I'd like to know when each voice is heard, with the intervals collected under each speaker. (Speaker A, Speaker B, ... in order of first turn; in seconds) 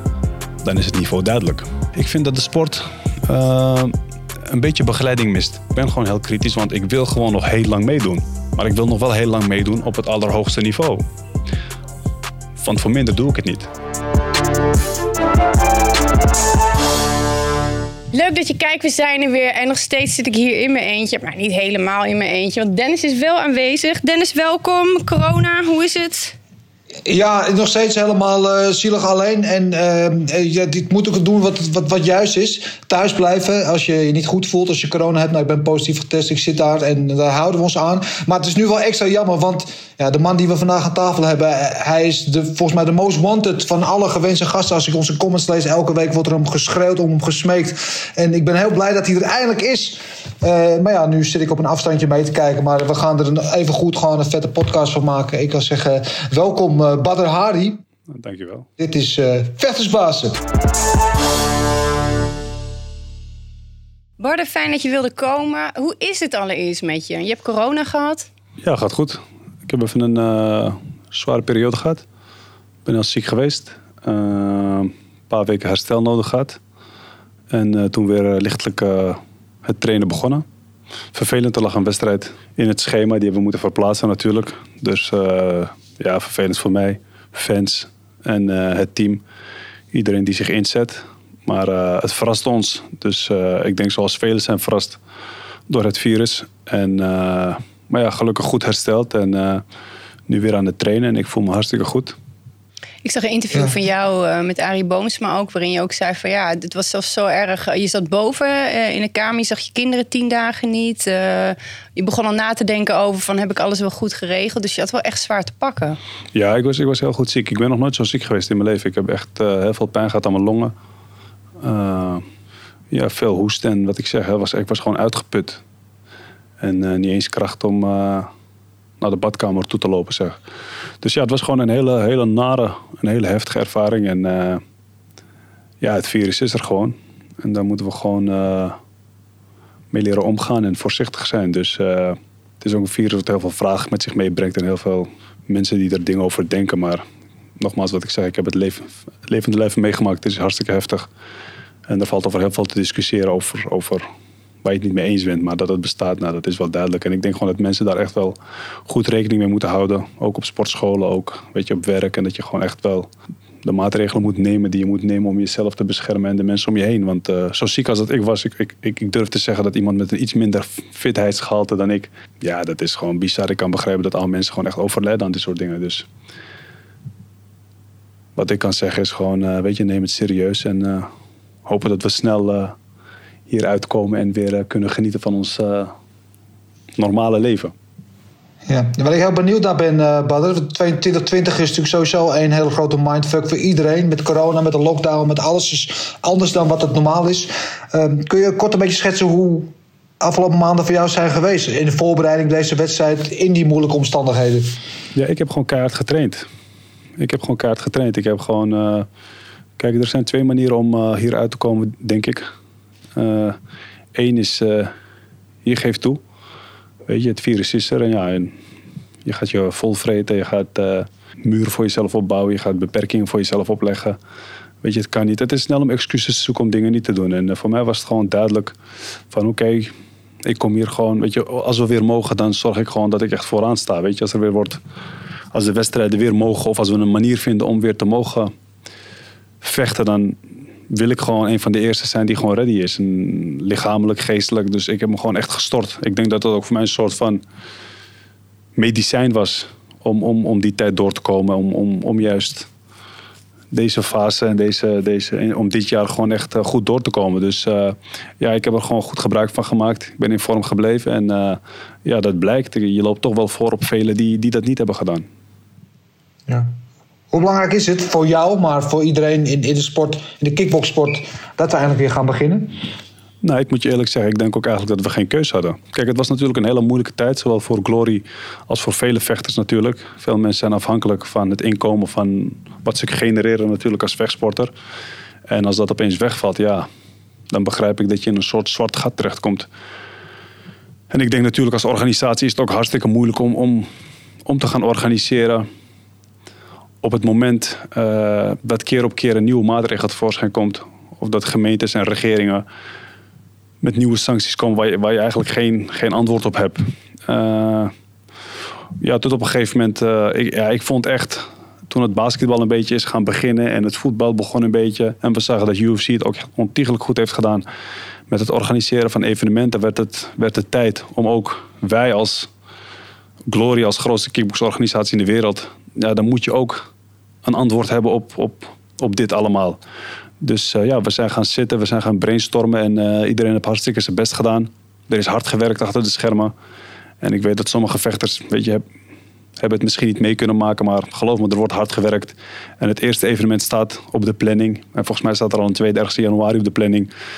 Speaker A: 0.6-11.0, 12.6-13.7, 58.1-58.7, 68.6-72.0, 72.8-76.6, 77.5-80.4, 81.1-89.2, 89.9-95.0, 95.7-99.6, 100.3-102.1, 116.3-120.7, 121.6-122.2, 122.9-125.6, 126.6-128.3, 129.0-130.4, 131.0-134.6, 135.8-138.8, 139.9-147.0, 147.6-151.1, 151.9-154.1, 154.6-158.4, 158.9-163.1, 163.6-176.1, 178.4-181.1, 181.7-182.8, 183.5-185.9, 187.0-187.7, 205.2-206.5, 207.2-209.1, 209.8-212.5, 213.2-213.6, 214.2-214.9, 215.7-216.2, 217.1-218.5, 219.2-224.2, 224.8-228.8, 229.3-229.9, 230.4-234.8, 235.5-238.5, 239.6-240.4, 240.9-247.4, 248.8-252.7, 253.7-265.2, 273.4-284.7, 285.5-286.9, 287.5-289.7, 291.1-293.9, 294.4-295.7, 297.0-302.6, 303.8-307.9, 309.0-317.6, 318.3-322.5, 323.5-326.9, 327.4-329.8, 330.4-336.5, 337.2-338.8, 339.6-347.1
Speaker B: 18.1-26.4, 64.2-68.3, 103.0-116.0
Speaker C: 27.1-57.8, 58.8-60.4, 188.7-204.8, 267.3-272.8